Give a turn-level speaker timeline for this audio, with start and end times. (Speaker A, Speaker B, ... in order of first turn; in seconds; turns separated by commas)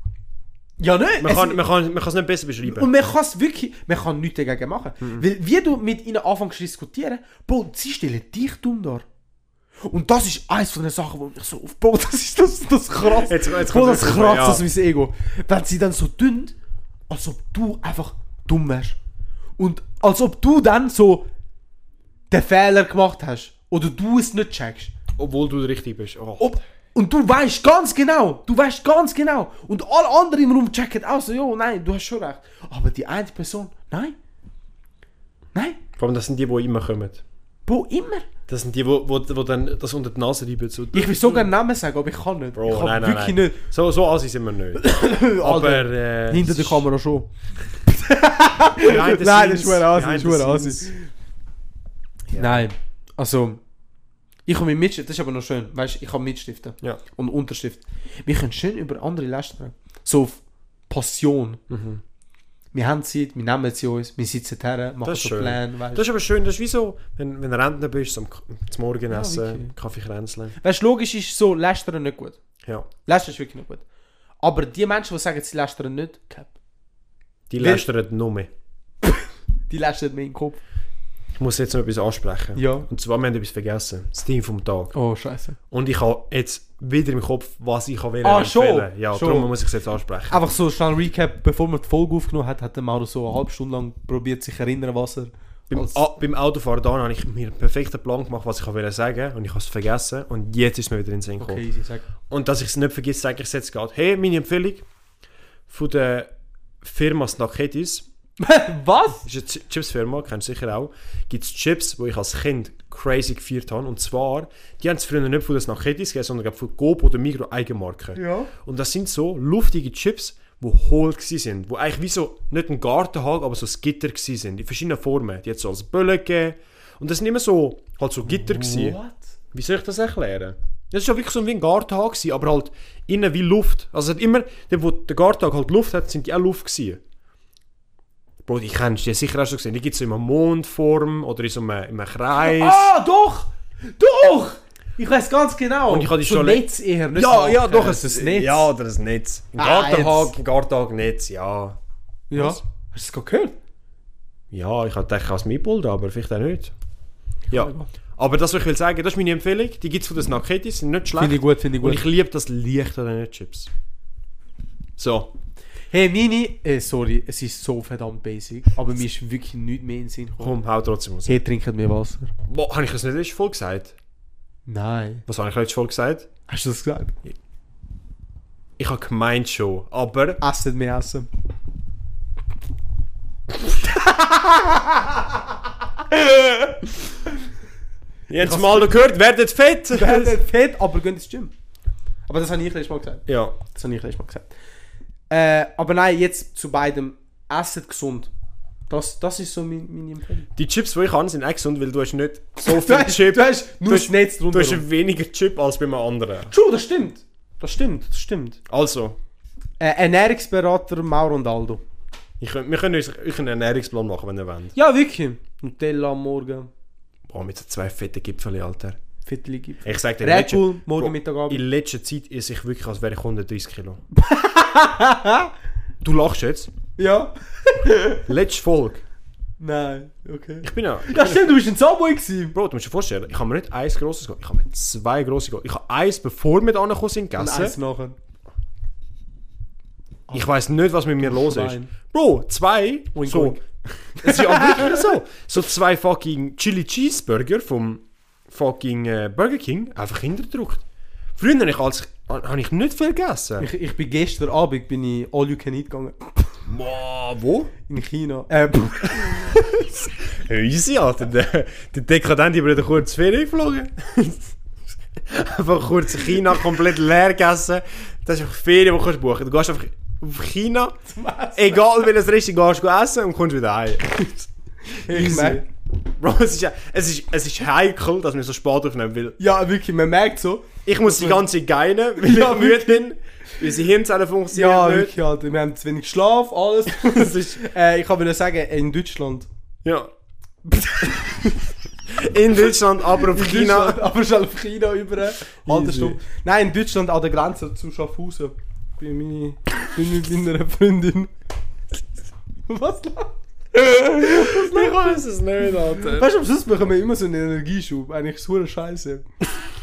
Speaker A: 0.8-1.6, Speaker B: 1.2-2.9, Speaker A: 2.7-9.1, Speaker A: 9.8-16.6, Speaker B: 13.1-14.6, Speaker A: 17.1-19.0, Speaker A: 19.6-21.3, Speaker A: 22.3-24.9, Speaker B: 25.2-26.5, Speaker A: 26.4-34.2, Speaker A: 35.5-35.8, Speaker B: 36.0-37.2, Speaker A: 37.7-38.3, Speaker B: 38.5-41.5, Speaker A: 40.9-43.6, Speaker B: 42.5-46.9, Speaker A: 44.8-47.3, Speaker A: 47.9-51.1, Speaker B: 48.8-50.9, Speaker B: 52.3-52.7, Speaker A: 52.4-53.6, Speaker A: 54.5-61.6, Speaker B: 61.7-62.0, Speaker A: 62.7-66.0, Speaker B: 65.0-70.6, Speaker A: 69.1-69.7, Speaker A: 70.6-72.4, Speaker B: 72.6-72.9, Speaker A: 73.1-73.8, Speaker A: 74.4-76.5, Speaker B: 77.5-78.5, Speaker A: 77.6-77.8, Speaker A: 79.0-80.6, Speaker B: 81.3-84.9, Speaker A: 82.6-82.9, Speaker A: 84.9-85.6, Speaker B: 85.7-90.4, Speaker A: 88.2-89.5, Speaker A: 90.3-96.0, Speaker B: 95.7-101.6, Speaker A: 101.4-102.1, Speaker B: 102.3-104.9, Speaker B: 105.7-108.1, Speaker A: 108.4-109.3, Speaker B: 109.2-129.0, Speaker A: 118.2-118.5, Speaker A: 128.3-129.3, Speaker B: 129.5-137.0, Speaker B: 138.4-142.9, Speaker A: 142.4-148.7, Speaker B: 145.9-151.8, Speaker A: 149.6-150.3, Speaker A: 152.3-153.6, Speaker B: 152.3-152.6, Speaker B: 154.5-156.7, Speaker A: 157.5-157.9, Speaker B: 157.5-163.7, Speaker A: 161.2-162.0, Speaker B: 165.0-165.3, Speaker A: 165.9-170.6, Speaker B: 170.4-171.4, Speaker A: 171.3-172.3, Speaker B: 172.5-173.9, Speaker A: 174.7-175.2, Speaker B: 175.3-176.3, Speaker A: 176.5-177.2, Speaker B: 178.8-180.4, Speaker A: 180.4-181.3, Speaker A: 183.8-185.5, Speaker A: 186.1-187.0, Speaker B: 188.3-190.4, Speaker A: 188.4-189.0, Speaker A: 189.9-191.5, Speaker A: 192.3-194.5, Speaker B: 193.3-193.6, Speaker A: 195.3-198.3, Speaker A: 198.9-200.5, Speaker B: 200.6-206.5, Speaker A: 202.7-204.8, Speaker A: 206.5-208.6, Speaker B: 208.7-209.2, Speaker A: 209.8-211.8, Speaker B: 212.4-214.8, Speaker A: 214.8-216.7, Speaker B: 217.3-219.0, Speaker A: 219.2-221.6, Speaker B: 219.8-224.0, Speaker A: 224.1-225.5, Speaker B: 226.0-226.7, Speaker A: 227.0-228.2, Speaker B: 228.3-229.0, Speaker A: 229.6-232.6, Speaker B: 230.6-231.6, Speaker B: 232.5-237.8, Speaker A: 237.4-238.2, Speaker B: 240.3-243.6, Speaker A: 241.2-241.9, Speaker A: 243.2-245.1, Speaker B: 244.2-253.7, Speaker A: 253.6-256.5, Speaker B: 256.7-257.7, Speaker A: 257.9-259.9, Speaker B: 260.2-264.5, Speaker B: 265.2-271.0, Speaker A: 271.1-271.8, Speaker B: 271.6-274.5, Speaker A: 274.9-275.7, Speaker B: 275.1-275.7, Speaker B: 276.2-279.4, Speaker A: 279.4-281.4, Speaker B: 280.9-285.1, Speaker A: 282.2-283.1, Speaker A: 284.5-289.5, Speaker B: 286.9-287.6, Speaker B: 289.8-290.1, Speaker A: 290.7-291.7, Speaker B: 292.1-294.0, Speaker A: 293.2-301.3, Speaker B: 295.6-296.2, Speaker A: 302.7-305.2, Speaker B: 304.2-306.3, Speaker A: 306.0-309.3